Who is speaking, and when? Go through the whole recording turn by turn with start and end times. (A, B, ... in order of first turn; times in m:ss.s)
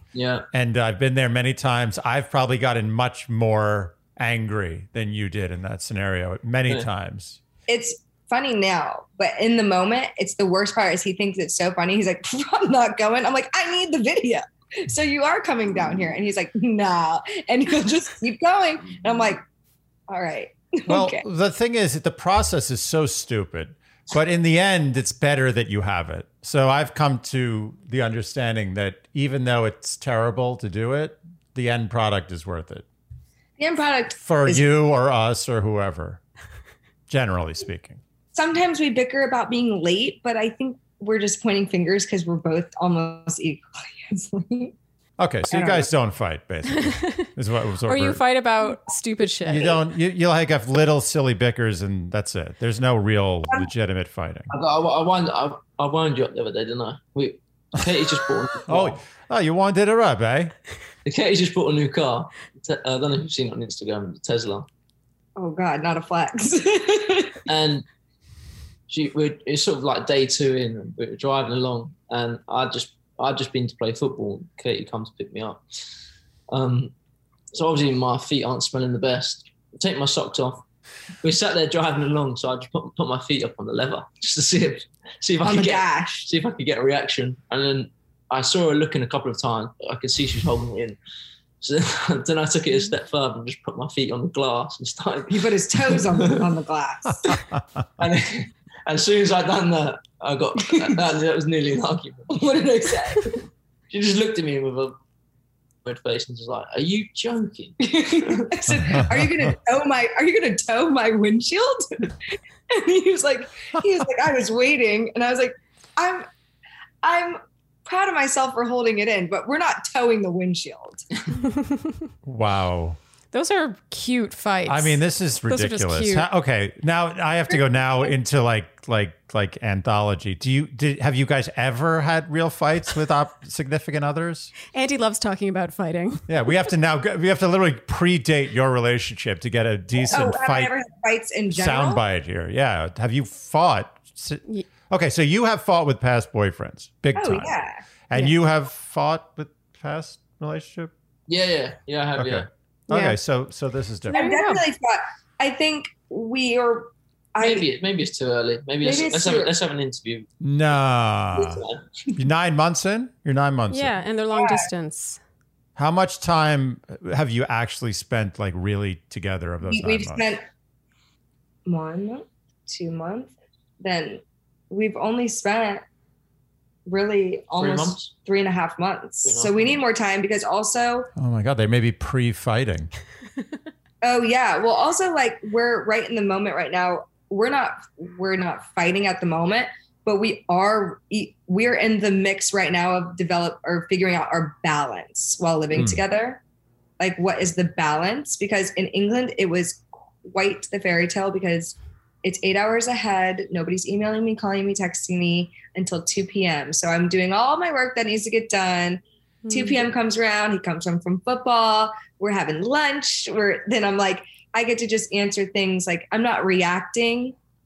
0:00.1-0:00.5 A
0:00.5-0:07.4 B
0:07.7-0:19.4 C
0:20.1-0:21.2 C
0:20.9-0:32.8 B
0:33.6-0:34.7 C
0:34.2-0:36.2 B
0:37.1-0:38.0 B
0:38.3-0:44.7 C
0:45.2-0:48.2 B
0:45.5-0:45.9 C
0:46.7-0:47.3 D
0:47.8-0:49.8 D
0:49.4-0:54.5 B
0:54.5-0:59.0 A
0:58.6-1:00.5 B
1:01.0-1:04.7 A
1:05.4-1:07.4 C
1:07.5-1:07.8 A
1:08.9-1:15.6 A
1:16.5-1:16.9 A
1:17.5-1:20.6 A
1:21.2-1:31.0 A
1:25.4-1:26.3 C
1:31.6-1:36.5 A
1:35.3-1:37.4 C
1:38.0-1:42.4 A
1:42.3-1:43.4 C
1:43.9-1:45.0 A
1:45.8-1:48.4 A
1:47.8-1:52.2 C
1:52.7-1:56.3 C
1:57.0-2:01.1 C
2:02.2-2:03.0 B
2:03.3-2:06.2 D
2:04.7-2:14.5 B
2:14.7-2:16.3 D
2:16.3-2:20.7 B
2:20.1-2:22.0 C
2:21.5-2:27.5 B
2:27.1-2:27.8 C
2:28.1-2:30.9 B
2:31.3-2:32.5 A
2:32.2-2:34.2 B
2:32.9-2:33.2 D
2:34.1-2:34.6 D
2:34.1-2:37.7 C
2:37.4-2:40.3 A
2:38.8-2:39.5 C
2:40.4-2:41.6 B
2:41.3-2:41.8 A
2:42.2-2:44.0 B
2:43.7-2:45.2 D
2:44.3-2:44.7 C
2:45.8-2:50.3 B
2:49.7-2:50.4 C
2:51.6-2:55.8 C
2:56.8-3:01.1 C
2:57.6-2:58.1 A
2:59.2-2:59.8 A
3:01.2-3:02.9 B
3:04.0-3:16.4 C
3:15.7-3:16.0 B
3:17.0-3:37.3 C
3:29.4-3:29.8 D